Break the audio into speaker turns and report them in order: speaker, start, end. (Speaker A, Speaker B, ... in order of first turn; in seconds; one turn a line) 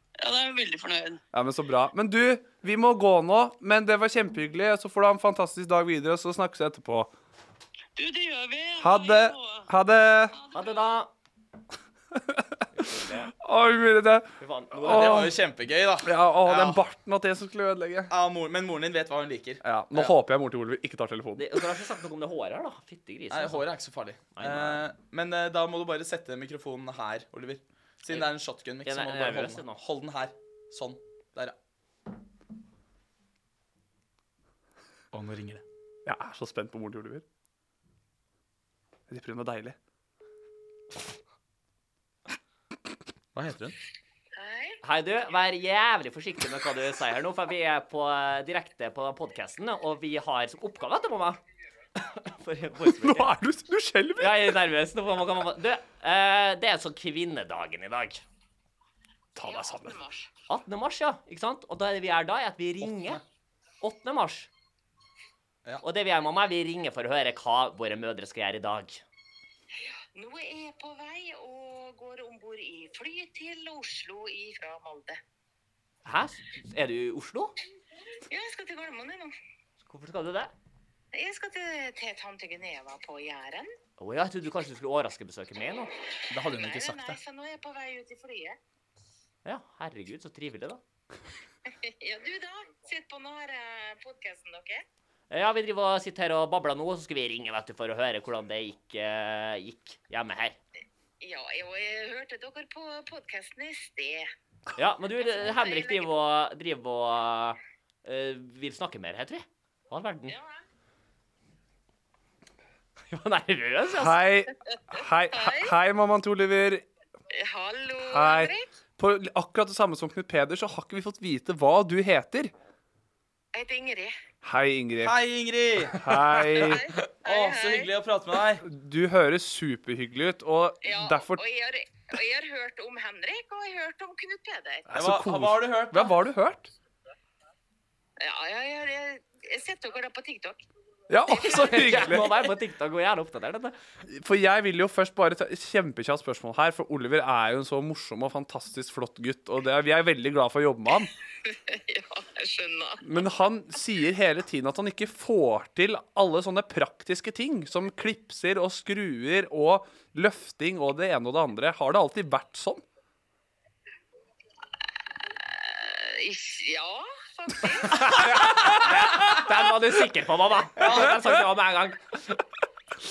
Speaker A: 0.2-1.2
Speaker B: 1.3-7.1
Speaker A: 8.0-9.7
Speaker B: 8.8-10.3
Speaker A: 10.3-11.0
Speaker C: 10.5-11.1
Speaker B: 12.1-12.7
Speaker C: 12.7-13.3
Speaker B: 13.3-15.4
Speaker C: 14.4-15.3
Speaker D: 14.8-16.8
Speaker B: 16.0-18.1
Speaker D: 18.1-20.1
Speaker B: 19.6-21.7
Speaker C: 21.4-23.7
Speaker D: 23.3-31.5
Speaker C: 24.3-24.8
Speaker C: 28.9-29.8
Speaker D: 35.1-35.6
Speaker B: 36.0-37.2
Speaker B: 39.1-39.8
Speaker D: 43.3-43.8
Speaker E: 44.4-44.8
Speaker C: 44.8-51.4
Speaker C: 52.0-53.3
Speaker B: 52.9-54.6
Speaker C: 54.2-58.2
Speaker B: 59.3-60.0
Speaker E: 59.5-60.3
Speaker C: 60.5-63.2
Speaker D: 62.8-63.2
Speaker C: 63.8-64.5
Speaker C: 65.8-69.0
Speaker E: 70.1-75.2
Speaker C: 76.0-77.5
Speaker E: 78.3-79.3
Speaker C: 79.8-80.5
Speaker E: 81.1-83.7
Speaker C: 84.0-85.9
Speaker D: 86.3-87.2
Speaker E: 86.5-88.6
Speaker C: 89.4-90.8
Speaker E: 91.9-94.8
Speaker C: 95.3-100.6
Speaker E: 101.2-104.3
Speaker C: 104.8-110.4
Speaker E: 105.5-106.0
Speaker C: 113.1-114.2
Speaker B: 113.9-116.8
Speaker E: 115.4-115.7
Speaker E: 117.3-118.7
Speaker B: 118.0-122.5
Speaker E: 123.5-124.1
Speaker B: 124.4-125.2
Speaker D: 125.0-126.3
Speaker B: 125.9-127.0
Speaker E: 126.5-127.8
Speaker D: 127.2-128.6
Speaker B: 128.6-131.4
Speaker E: 130.8-134.8
Speaker B: 134.9-136.7
Speaker D: 134.9-136.2
Speaker E: 138.2-140.6
Speaker B: 141.1-142.3
Speaker C: 141.4-143.7
Speaker B: 144.0-151.1
Speaker E: 151.7-153.0
Speaker B: 153.0-162.8
Speaker E: 165.7-167.9
Speaker C: 167.9-172.4
Speaker B: 168.3-169.6
Speaker D: 170.8-171.1
Speaker B: 170.8-171.4